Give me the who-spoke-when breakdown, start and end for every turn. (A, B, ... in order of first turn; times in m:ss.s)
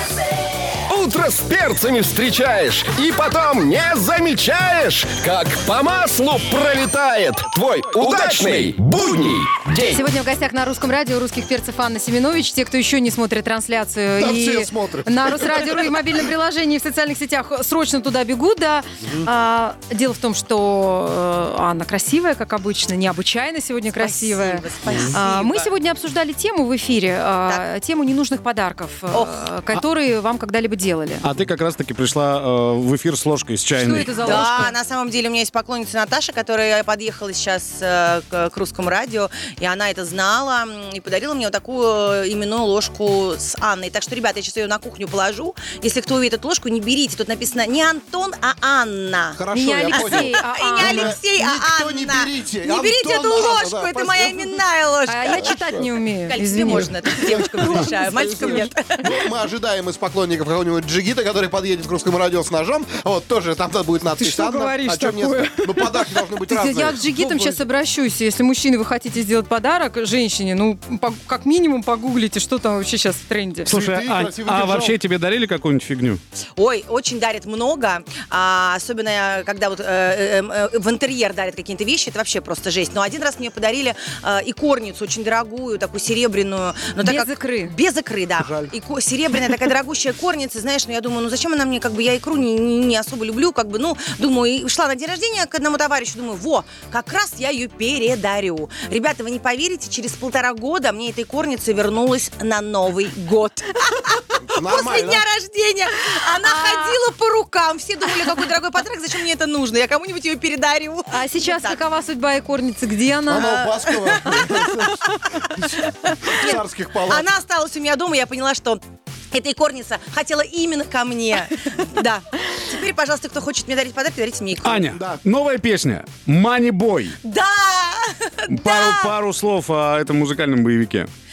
0:00.9-0:10.0 A
0:09.9-0:31.2 B
0:14.2-0:15.8 C
0:19.0-0:19.3 C
0:23.9-0:25.7 D
0:24.9-0:25.1 C
0:29.1-0:29.4 D
0:31.2-0:34.4 E
0:33.8-0:34.7 B
0:34.2-0:49.4 D
0:49.3-0:54.6 C
0:49.5-0:51.2 B
0:49.9-0:55.6 D
0:55.1-0:57.2 B
0:55.3-0:55.9 C
0:56.2-0:59.1 D
0:57.3-1:07.6 C
1:04.2-1:13.7 B
1:13.7-1:15.0 C
1:13.7-1:16.2 E
1:16.6-1:51.8 D
1:27.0-1:27.7 B
1:28.4-1:28.7 C
1:44.5-1:45.2 C
1:46.5-1:46.9 B
1:51.1-1:53.6 B
1:53.3-1:55.2 C
1:53.4-1:54.4 D
1:56.2-1:57.3 C
1:56.3-1:58.8 D
1:59.3-2:04.9 D
2:04.6-2:07.2 E
2:04.9-2:05.2 C
2:07.2-2:09.1 D
2:08.5-2:11.1 E